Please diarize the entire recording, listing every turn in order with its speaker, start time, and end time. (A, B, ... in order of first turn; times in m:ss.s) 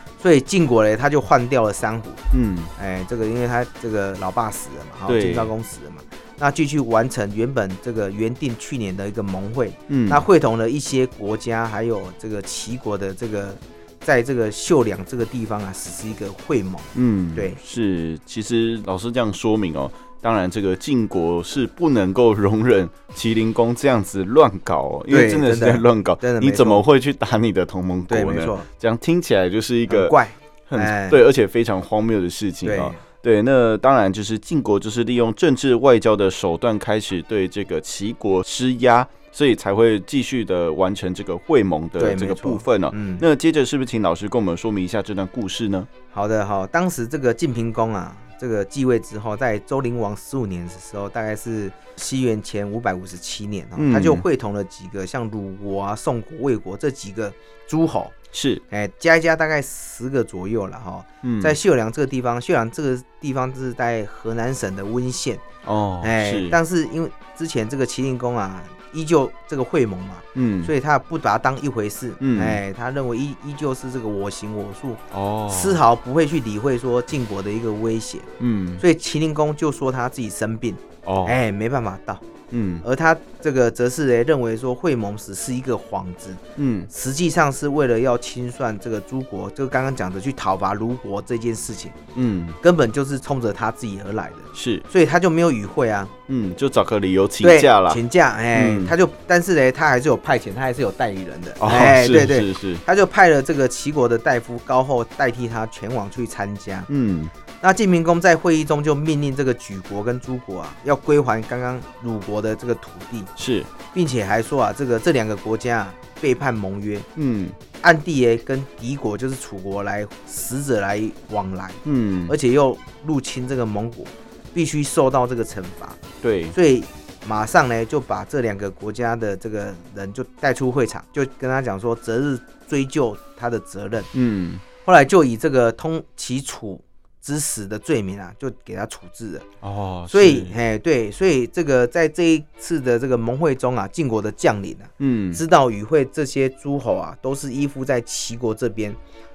0:00.2-0:02.2 A
0:02.3-0:02.7 B
0:02.8-0:17.6 A
0:05.1-0:05.5 B
0:09.9-0:10.2 B
0:16.9-0:30.2 B
0:25.1-0:26.8 A
0:28.1-0:28.7 A
0:29.9-0:31.2 A
0:30.7-0:45.9 B
0:32.6-0:33.0 A
0:42.0-0:43.2 A
0:46.1-0:58.2 A
0:53.8-0:54.2 B
0:58.3-0:58.6 B
0:58.7-1:05.4 A
1:01.2-1:01.6 B
1:05.6-1:06.6 B
1:06.0-1:18.3 A
1:10.4-1:10.7 B
1:12.2-1:12.6 B
1:15.1-1:15.8 B
1:18.4-1:18.8 B
1:18.8-1:22.2 A
1:21.0-1:21.4 B
1:22.5-1:22.8 B
1:22.8-1:32.0 A
1:26.6-1:26.9 B
1:32.2-1:32.6 B
1:32.6-1:36.1 A
1:34.5-1:34.8 B
1:36.3-1:38.0 B
1:37.4-1:46.9 A
1:38.5-1:38.9 B
1:41.6-1:42.8 B
1:46.9-1:47.3 B
1:47.6-1:53.3 A
1:53.4-1:53.7 B
1:53.9-1:57.1 A
1:57.2-1:57.6 B
1:57.8-2:06.0 A
2:01.8-2:02.3 B
2:06.2-2:06.6 B
2:06.5-2:14.1 A
2:14.1-2:14.6 B
2:14.8-2:19.5 A
2:19.6-2:20.6 B
2:20.1-2:29.0 A
2:25.0-2:25.4 B